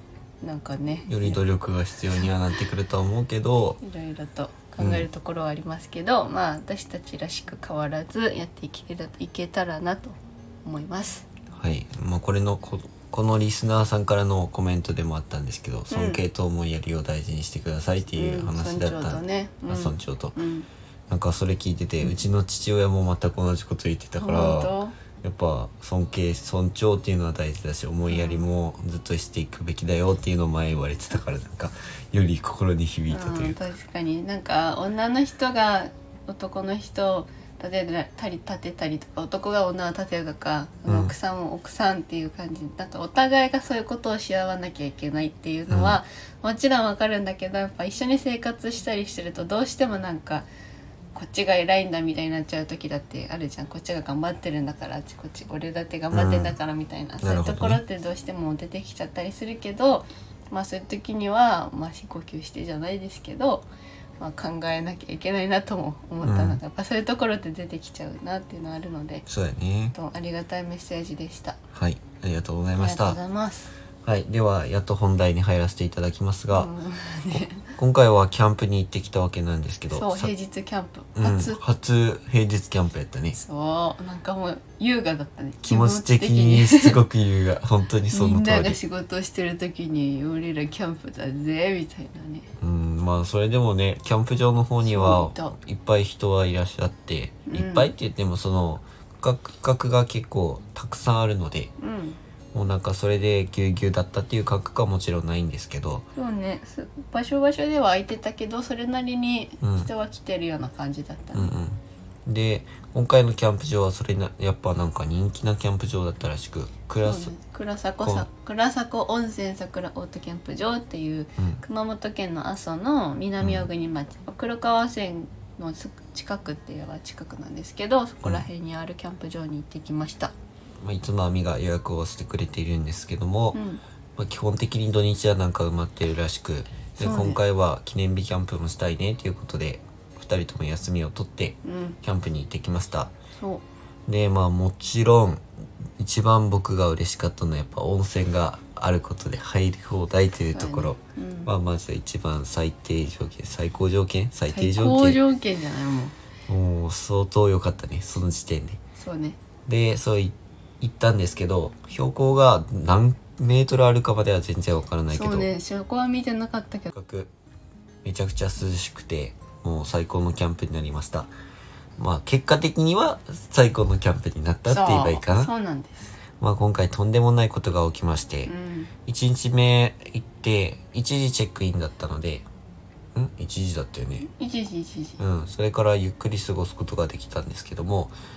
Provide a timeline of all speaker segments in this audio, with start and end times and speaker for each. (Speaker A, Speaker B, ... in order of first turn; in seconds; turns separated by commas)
Speaker A: 0.4-1.4, Speaker B: 1.1-3.8, Speaker A: 3.8-11.3, Speaker B: 4.8-5.1, Speaker B: 11.5-20.4, Speaker A: 15.9-16.2, Speaker A: 18.2-20.7, Speaker B: 21.1-33.6, Speaker A: 24.2-25.0, Speaker A: 28.1-28.5, Speaker A: 33.1-50.5, Speaker B: 40.9-41.1, Speaker B: 45.7-46.0, Speaker A: 51.1-63.7, Speaker B: 56.1-56.5, Speaker B: 57.2-57.8, Speaker A: 64.2-69.2, Speaker B: 66.2-66.6, Speaker B: 69.3-70.0, Speaker A: 69.9-71.6, Speaker B: 71.7-73.2, Speaker A: 72.8-73.7, Speaker B: 74.0-76.7, Speaker A: 76.5-77.7, Speaker B: 77.3-80.3, Speaker A: 79.9-81.6, Speaker B: 81.2-83.4, Speaker A: 83.3-87.0, Speaker B: 85.7-88.8, Speaker A: 88.1-92.5, Speaker B: 92.6-101.7, Speaker A: 94.8-95.5, Speaker A: 97.5-97.9, Speaker A: 101.8-102.2, Speaker B: 102.5-106.0, Speaker A: 106.2-111.5, Speaker B: 109.6-109.9, Speaker B: 111.3-117.3, Speaker A: 117.0-130.3, Speaker B: 123.4-123.7, Speaker B: 130.8-133.6, Speaker A: 133.5-133.8, Speaker B: 134.2-143.1, Speaker A: 137.0-137.4, Speaker A: 141.6-142.0, Speaker A: 143.4-143.7, Speaker B: 144.1-145.4, Speaker B: 146.0-155.2, Speaker A: 150.5-151.5, Speaker A: 154.5-156.2, Speaker B: 156.5-158.8, Speaker A: 159.0-159.4, Speaker B: 159.7-165.5, Speaker A: 165.1-166.9, Speaker B: 166.9-167.3, Speaker B: 168.0-171.3, Speaker B: 172.0-175.5, Speaker A: 174.7-176.2, Speaker B: 176.4-178.5, Speaker A: 178.5-178.9, Speaker B: 179.1-182.4, Speaker B: 183.2-184.3, Speaker A: 184.2-185.2, Speaker B: 185.2-188.1